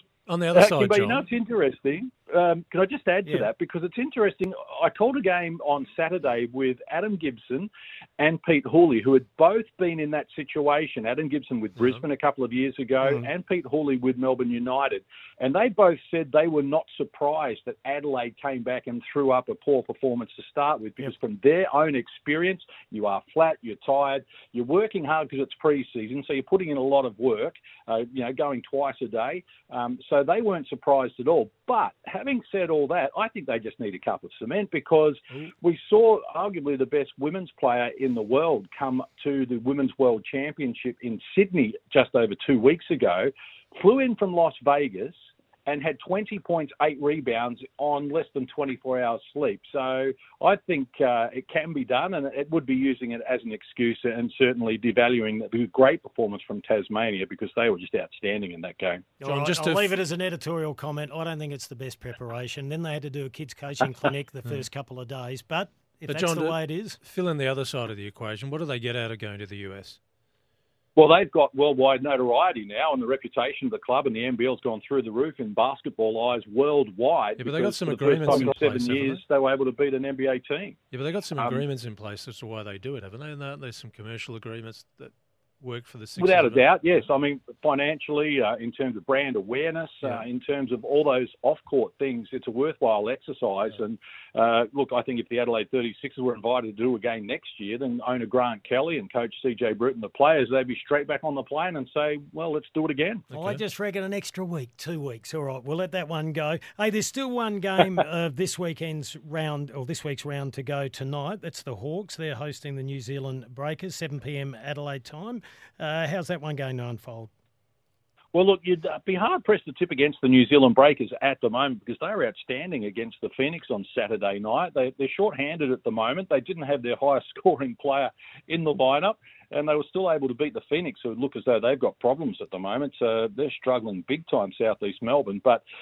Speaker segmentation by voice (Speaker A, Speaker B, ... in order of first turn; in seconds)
Speaker A: 0.3-1.2, 11.8-12.0, 59.2-59.9, 66.1-70.0, 77.4-79.2, 80.9-87.0, 103.3-103.6
Speaker B: 0.5-59.1, 71.0-80.8, 86.2-103.2, 118.3-135.6
Speaker C: 59.2-67.0, 103.3-117.3